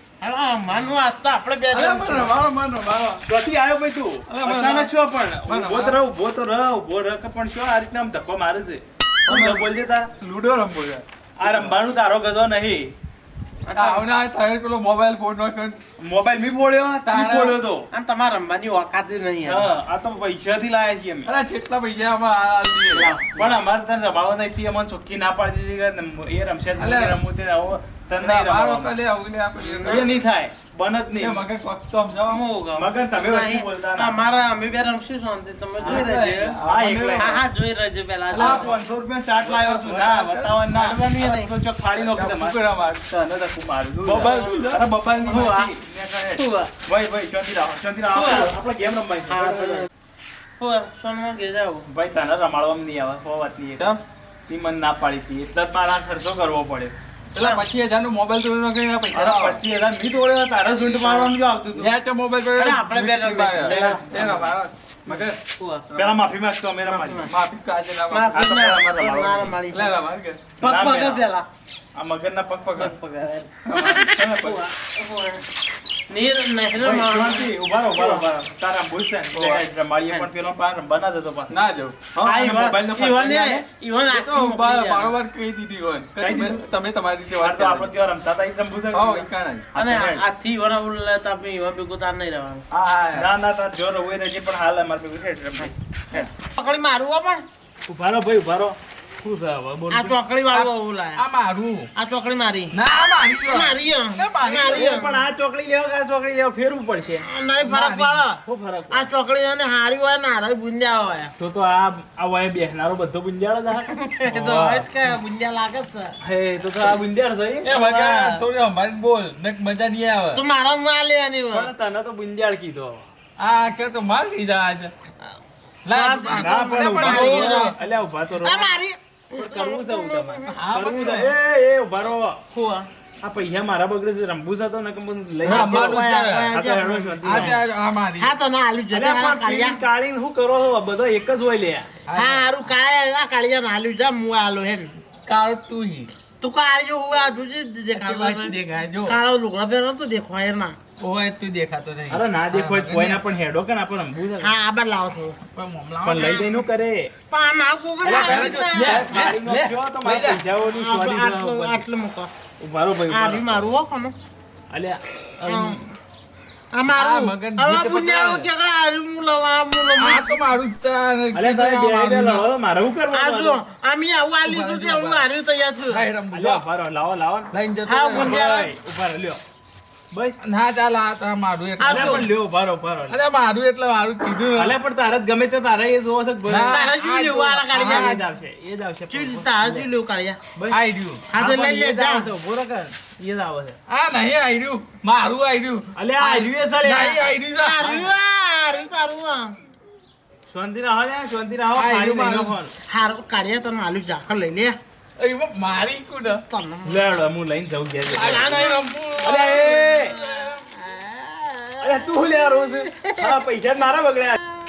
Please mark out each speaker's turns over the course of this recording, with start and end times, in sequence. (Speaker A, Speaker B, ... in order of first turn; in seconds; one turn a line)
Speaker A: 0.2-2.4
Speaker B: 1.7-3.2
Speaker C: 3.2-10.1
Speaker B: 4.3-4.9
Speaker B: 5.5-6.0
Speaker B: 9.3-11.8
Speaker C: 11.4-12.9
Speaker A: 13.6-14.0
Speaker B: 13.7-15.8
Speaker C: 16.0-17.9
Speaker B: 17.0-17.6
Speaker A: 17.9-19.7
Speaker C: 19.4-21.3
Speaker B: 21.2-23.5
Speaker C: 22.9-29.0
Speaker B: 26.8-27.2
Speaker B: 28.2-30.2
Speaker A: 29.6-30.1
Speaker C: 29.8-31.4
Speaker B: 31.2-32.4
Speaker A: 32.3-36.6
Speaker C: 32.8-34.1
Speaker C: 35.8-37.4
Speaker B: 35.8-37.4
Speaker A: 37.2-38.8
Speaker C: 38.3-42.6
Speaker B: 38.3-38.8
Speaker B: 39.4-40.6
Speaker A: 40.7-41.5
Speaker B: 42.0-43.4
Speaker C: 43.2-49.9
Speaker B: 44.0-44.8
Speaker A: 44.2-44.5
Speaker A: 45.2-45.7
Speaker A: 46.4-46.7
Speaker A: 48.1-48.5
Speaker A: 49.3-49.9
Speaker A: 50.6-51.9
Speaker C: 51.9-53.9
Speaker C: 54.5-56.9
Speaker B: 57.3-59.6
Speaker A: 57.4-57.6
Speaker C: 59.1-61.9
Speaker A: 61.0-61.3
Speaker B: 61.7-65.4
Speaker A: 62.5-64.4
Speaker C: 63.6-64.5
Speaker A: 65.2-65.8
Speaker B: 65.9-66.2
Speaker C: 66.0-67.2
Speaker A: 66.8-67.3
Speaker B: 67.2-68.3
Speaker A: 68.1-69.9
Speaker C: 68.3-69.5
Speaker B: 69.7-70.4
Speaker A: 70.6-71.5
Speaker C: 70.6-71.2
Speaker C: 72.0-72.9
Speaker A: 72.8-73.5
Speaker B: 73.6-74.6
Speaker C: 74.2-74.5
Speaker A: 74.4-75.4
Speaker A: 76.1-78.2
Speaker C: 76.8-81.5
Speaker B: 79.3-79.6
Speaker B: 81.5-82.0
Speaker C: 82.1-83.6
Speaker A: 82.2-85.1
Speaker B: 84.1-87.9
Speaker C: 86.2-86.6
Speaker C: 87.4-90.2
Speaker B: 88.9-89.7
Speaker A: 89.8-92.6
Speaker B: 92.7-93.3
Speaker C: 93.1-96.3
Speaker A: 96.2-97.4
Speaker C: 97.9-100.2
Speaker A: 99.9-101.2
Speaker B: 100.5-101.9
Speaker A: 102.0-102.7
Speaker B: 102.7-104.9
Speaker A: 103.5-105.2
Speaker C: 104.7-107.2
Speaker A: 107.2-108.4
Speaker B: 107.6-108.2
Speaker C: 108.4-109.1
Speaker A: 108.9-111.3
Speaker C: 111.4-113.9
Speaker A: 114.0-116.1
Speaker B: 114.3-114.9
Speaker C: 116.2-117.7
Speaker B: 117.6-120.4
Speaker A: 117.7-118.4
Speaker A: 120.3-121.7
Speaker C: 121.5-123.1
Speaker B: 123.4-124.9
Speaker B: 125.8-127.7
Speaker A: 125.9-127.7
Speaker C: 126.4-128.8
Speaker A: 128.4-130.6
Speaker C: 129.3-132.4
Speaker B: 130.5-131.3
Speaker A: 132.5-132.9
Speaker C: 133.2-137.6
Speaker B: 135.4-136.5
Speaker A: 135.4-137.6
Speaker B: 137.2-138.3
Speaker A: 138.2-139.8
Speaker C: 138.9-141.9
Speaker B: 142.1-142.7
Speaker A: 142.1-145.0
Speaker B: 145.2-146.1
Speaker A: 146.4-150.8
Speaker B: 147.9-149.2
Speaker B: 151.0-153.2
Speaker C: 152.1-154.5
Speaker A: 154.4-155.4
Speaker B: 155.5-156.4
Speaker C: 156.0-157.1
Speaker A: 156.2-156.6
Speaker A: 157.3-159.0
Speaker C: 158.0-161.8
Speaker B: 158.1-160.4
Speaker A: 160.7-162.3
Speaker C: 162.6-163.5
Speaker A: 163.1-164.1
Speaker C: 164.7-165.8
Speaker A: 165.4-165.8
Speaker A: 166.7-170.3
Speaker B: 166.9-168.5
Speaker B: 170.0-172.5
Speaker C: 171.3-173.6
Speaker A: 173.1-176.1
Speaker B: 174.4-175.2
Speaker B: 175.9-176.6
Speaker C: 176.3-177.5
Speaker B: 177.5-178.7
Speaker A: 177.9-178.7
Speaker C: 178.1-179.4
Speaker C: 180.1-180.4
Speaker B: 180.4-182.3
Speaker A: 181.8-182.3
Speaker C: 181.9-183.2
Speaker B: 183.1-184.8
Speaker C: 184.5-186.8
Speaker B: 186.5-188.2
Speaker A: 186.7-188.2
Speaker C: 187.7-189.9
Speaker A: 189.1-190.4
Speaker B: 190.7-191.2
Speaker A: 191.3-192.3
Speaker C: 191.3-193.8
Speaker B: 193.9-198.1
Speaker C: 195.9-197.3
Speaker A: 197.6-199.6
Speaker C: 200.5-202.7
Speaker B: 201.7-202.6
Speaker A: 202.8-204.8
Speaker B: 205.2-206.4
Speaker A: 206.5-207.0
Speaker C: 206.8-208.6
Speaker B: 208.1-210.6
Speaker A: 208.1-208.9
Speaker C: 209.2-210.1
Speaker A: 210.2-212.1
Speaker C: 211.8-214.4
Speaker A: 212.9-213.3